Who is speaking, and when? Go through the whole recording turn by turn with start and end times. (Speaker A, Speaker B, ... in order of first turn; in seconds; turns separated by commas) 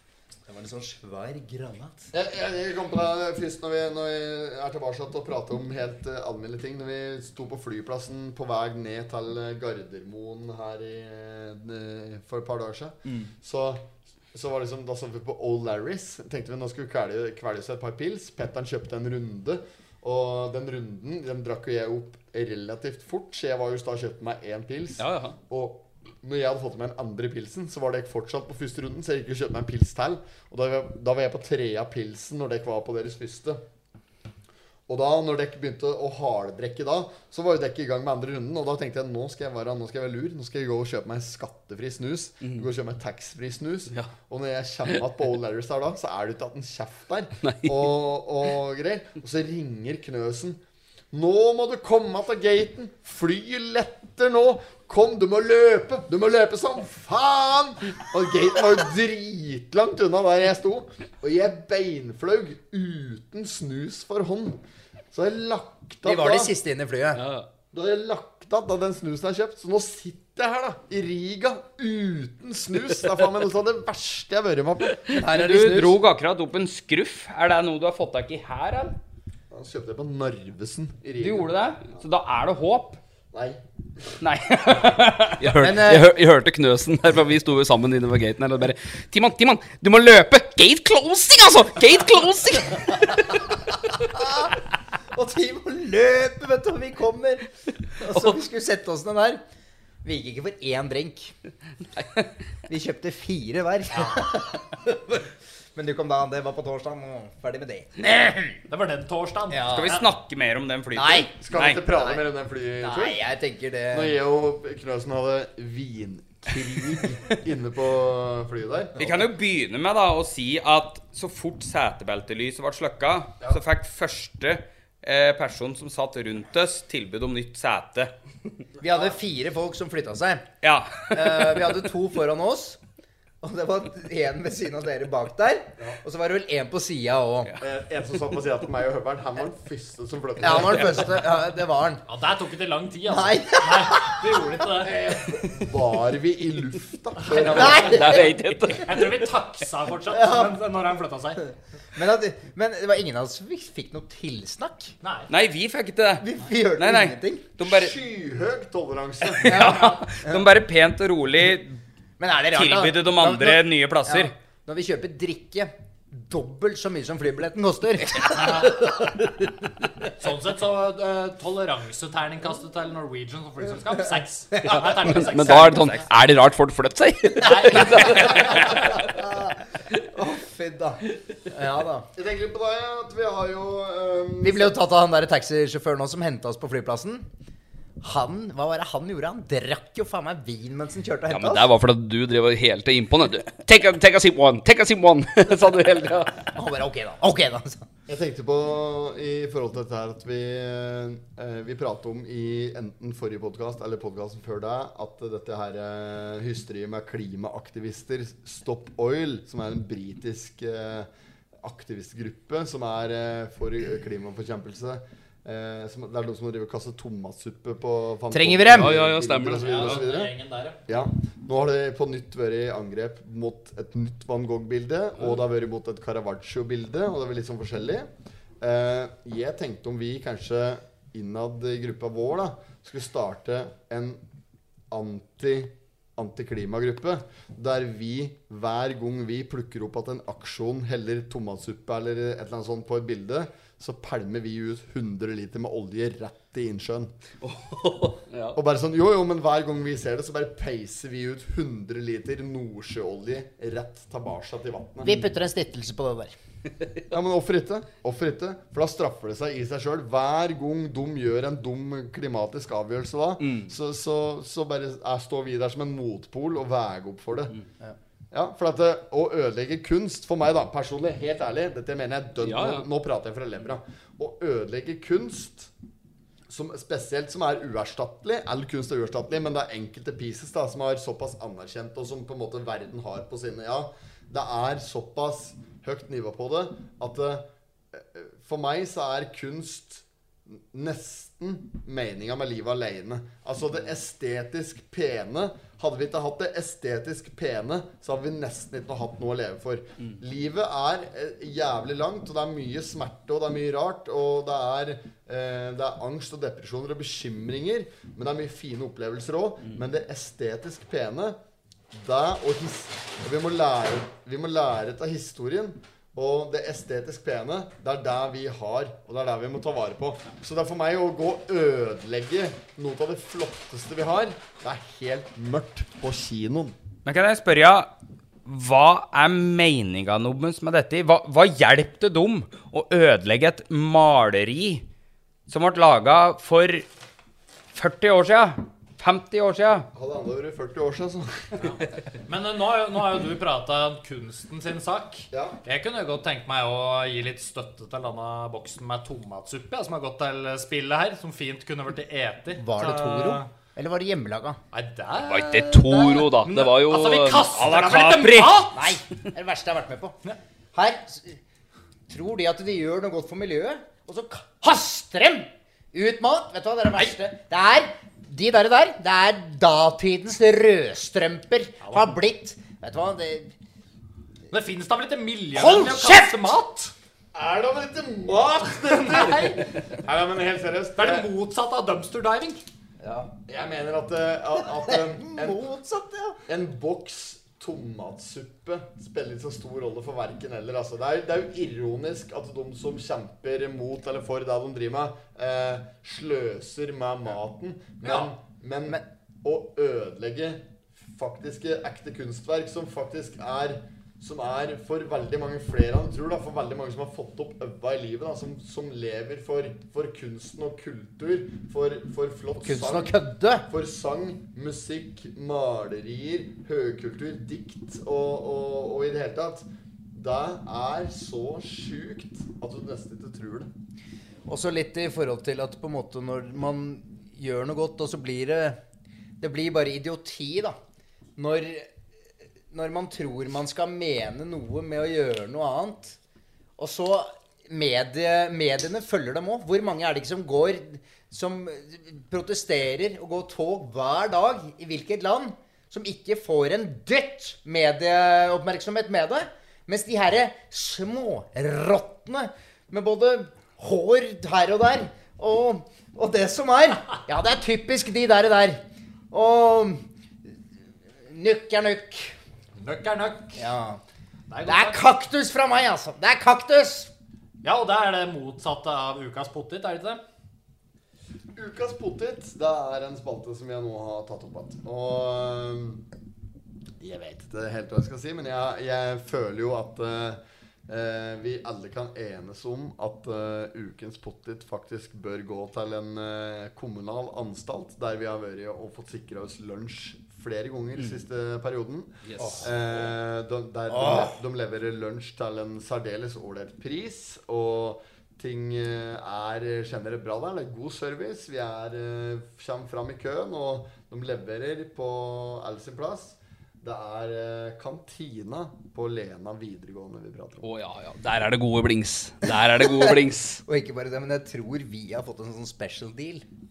Speaker A: 0.5-2.1, Speaker B: 2.1-33.6, Speaker C: 25.0-25.3, Speaker B: 34.9-50.6, Speaker C: 47.4-47.8, Speaker B: 51.1-64.6, Speaker B: 65.1-66.5, Speaker A: 66.0-67.2, Speaker C: 67.2-67.5, Speaker B: 67.7-75.1, Speaker A: 75.1-76.0, Speaker D: 75.3-79.0, Speaker B: 79.5-82.0, Speaker D: 81.2-83.0, Speaker B: 83.3-83.6, Speaker D: 84.2-85.5, Speaker C: 85.4-93.5, Speaker A: 85.6-86.1, Speaker A: 94.0-94.5, Speaker A: 95.1-99.4, Speaker A: 100.0-101.3, Speaker A: 102.7-108.6, Speaker E: 103.9-104.2, Speaker E: 108.7-110.1, Speaker A: 109.5-110.0, Speaker D: 109.7-111.8, Speaker A: 111.0-111.3, Speaker B: 111.4-113.2, Speaker A: 111.9-112.2, Speaker A: 112.8-114.2, Speaker B: 113.9-119.1, Speaker D: 119.0-128.1, Speaker A: 128.8-130.4, Speaker D: 130.6-131.6, Speaker A: 131.1-132.8, Speaker A: 133.4-137.5, Speaker B: 137.6-141.2, Speaker A: 140.4-142.0, Speaker E: 142.1-145.1, Speaker A: 143.1-144.3, Speaker B: 144.8-148.0, Speaker E: 147.2-147.9, Speaker A: 147.3-148.6, Speaker C: 147.8-149.2, Speaker E: 148.8-151.4, Speaker A: 150.1-150.6, Speaker A: 151.9-154.9, Speaker E: 155.0-155.3, Speaker D: 155.3-156.2, Speaker A: 156.2-157.4, Speaker D: 156.8-158.0, Speaker B: 157.6-159.5, Speaker D: 159.4-161.8, Speaker A: 159.4-160.5, Speaker A: 162.2-168.9, Speaker D: 162.5-164.3, Speaker E: 168.3-169.0, Speaker E: 170.2-176.1, Speaker C: 174.7-179.0, Speaker D: 175.4-176.1, Speaker E: 177.4-178.7, Speaker A: 177.4-179.6, Speaker A: 180.1-182.1, Speaker B: 182.2-184.8, Speaker A: 184.4-187.3, Speaker A: 188.0-191.7, Speaker C: 191.3-196.4, Speaker A: 196.5-197.9, Speaker B: 198.1-211.1, Speaker B: 211.6-220.3, Speaker A: 218.3-218.9, Speaker C: 218.7-220.0, Speaker E: 219.6-220.8, Speaker B: 220.9-228.1, Speaker B: 228.6-234.2, Speaker B: 234.9-247.2, Speaker C: 247.4-248.6, Speaker B: 248.6-255.2, Speaker A: 255.0-256.4, Speaker B: 257.1-267.5, Speaker C: 263.4-263.7, Speaker B: 268.3-275.7, Speaker C: 272.4-272.9, Speaker B: 276.5-311.4, Speaker B: 311.9-326.8, Speaker D: 327.1-327.9, Speaker D: 328.4-334.9, Speaker D: 335.5-336.9, Speaker D: 337.7-339.9, Speaker B: 339.9-341.5, Speaker E: 341.6-353.5, Speaker B: 345.3-345.6, Speaker A: 352.6-354.6, Speaker E: 354.7-358.9, Speaker C: 355.2-357.5, Speaker D: 357.5-358.7, Speaker A: 358.7-360.2, Speaker A: 360.8-361.4, Speaker A: 362.1-373.5, Speaker E: 371.8-372.1, Speaker E: 374.5-376.9, Speaker A: 375.6-376.5, Speaker B: 377.3-381.3, Speaker E: 379.0-379.6, Speaker E: 381.0-382.6, Speaker A: 383.0-383.3, Speaker B: 383.5-385.6, Speaker A: 384.9-386.4, Speaker B: 386.5-413.2, Speaker A: 412.6-413.7, Speaker B: 413.7-423.7, Speaker A: 424.5-428.8, Speaker A: 429.4-430.8, Speaker A: 431.4-431.9, Speaker A: 432.7-436.2, Speaker A: 436.8-460.0, Speaker A: 461.2-462.4, Speaker E: 462.8-463.6, Speaker A: 463.6-464.0, Speaker E: 464.5-465.0, Speaker A: 464.6-467.1, Speaker E: 467.6-470.2, Speaker B: 471.6-476.0, Speaker B: 477.0-510.6, Speaker C: 492.2-493.1, Speaker A: 492.4-492.7, Speaker A: 493.9-494.4, Speaker C: 510.6-513.6, Speaker A: 512.8-516.5